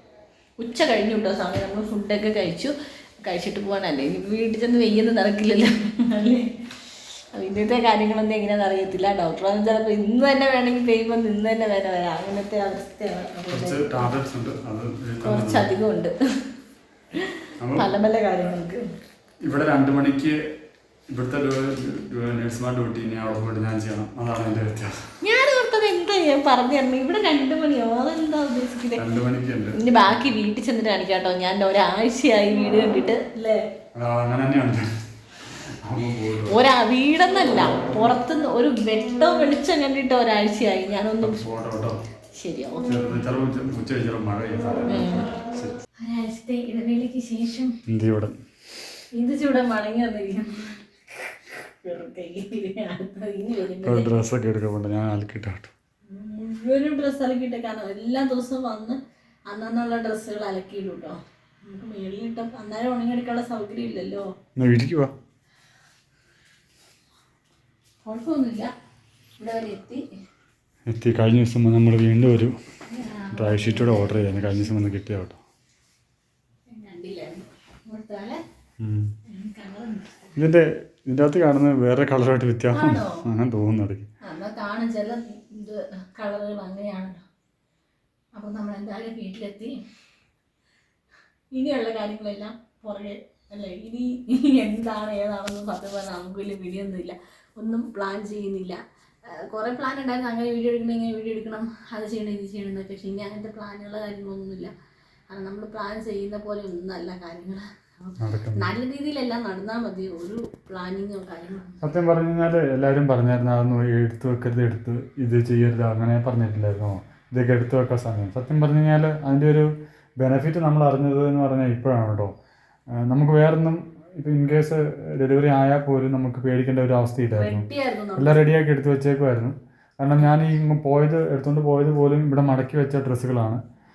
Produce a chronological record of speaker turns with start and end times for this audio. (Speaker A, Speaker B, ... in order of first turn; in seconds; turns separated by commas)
Speaker A: 0.6-2.7, Speaker A: 3.2-6.5, Speaker A: 7.3-14.1, Speaker B: 13.5-15.7, Speaker A: 15.2-16.1, Speaker A: 17.2-18.8, Speaker B: 17.6-17.9, Speaker B: 19.4-20.4, Speaker B: 21.1-25.1, Speaker A: 25.2-29.0, Speaker B: 28.9-29.8, Speaker A: 29.7-33.6, Speaker B: 33.9-34.9, Speaker B: 35.4-36.6, Speaker A: 36.5-41.4, Speaker B: 41.2-42.0, Speaker A: 42.3-42.9, Speaker B: 42.9-45.8, Speaker A: 44.9-45.3, Speaker A: 46.0-47.8, Speaker B: 47.9-48.4, Speaker A: 49.1-54.1, Speaker B: 53.8-55.7, Speaker A: 56.1-59.0, Speaker A: 59.5-64.3, Speaker B: 64.5-65.1, Speaker A: 68.0-68.7, Speaker A: 69.4-70.0, Speaker B: 70.9-72.5, Speaker A: 72.9-74.6, Speaker B: 73.3-75.4, Speaker A: 76.7-78.4, Speaker B: 78.8-79.1, Speaker A: 79.3-80.3, Speaker B: 80.3-84.1, Speaker A: 82.7-83.2, Speaker A: 84.2-87.2, Speaker A: 88.3-89.7, Speaker A: 91.5-98.8, Speaker A: 99.3-104.7, Speaker A: 105.3-111.8, Speaker B: 108.2-108.7, Speaker B: 111.8-119.7, Speaker B: 120.2-122.3, Speaker B: 122.9-127.7, Speaker A: 127.3-128.4, Speaker B: 128.2-133.6